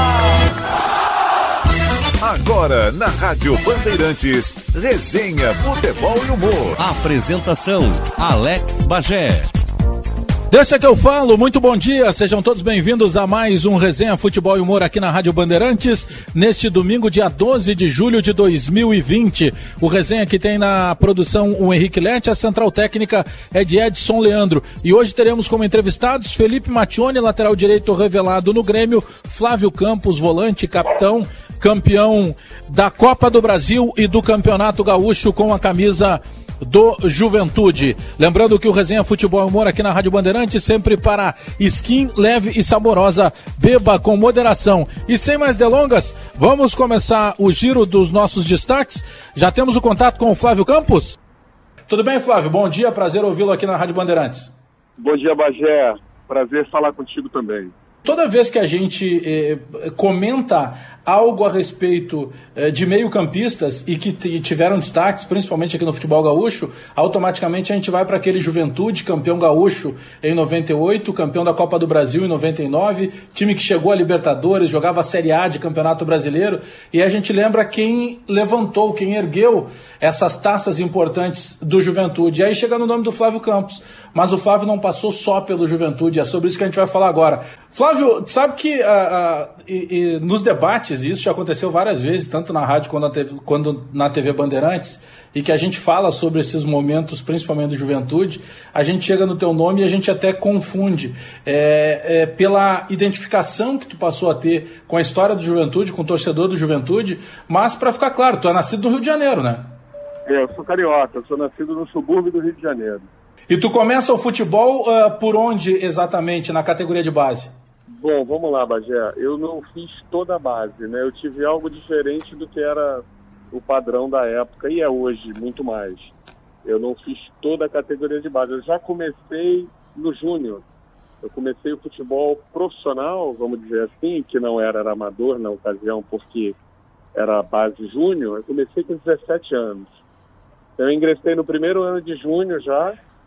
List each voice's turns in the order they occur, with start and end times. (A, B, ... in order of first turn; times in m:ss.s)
0:02.2-0:06.8 A
0:06.8-0:09.5 B
0:10.5-0:51.2 C
0:51.9-0:54.5 C
0:55.0-0:57.7 D
0:58.0-1:49.7 C
1:50.2-1:53.1 D
1:53.5-1:57.5 C
1:57.9-2:06.1 D
2:06.6-2:10.6 D
2:11.2-2:16.6 D
2:17.2-2:20.0 D
2:20.8-2:23.0 D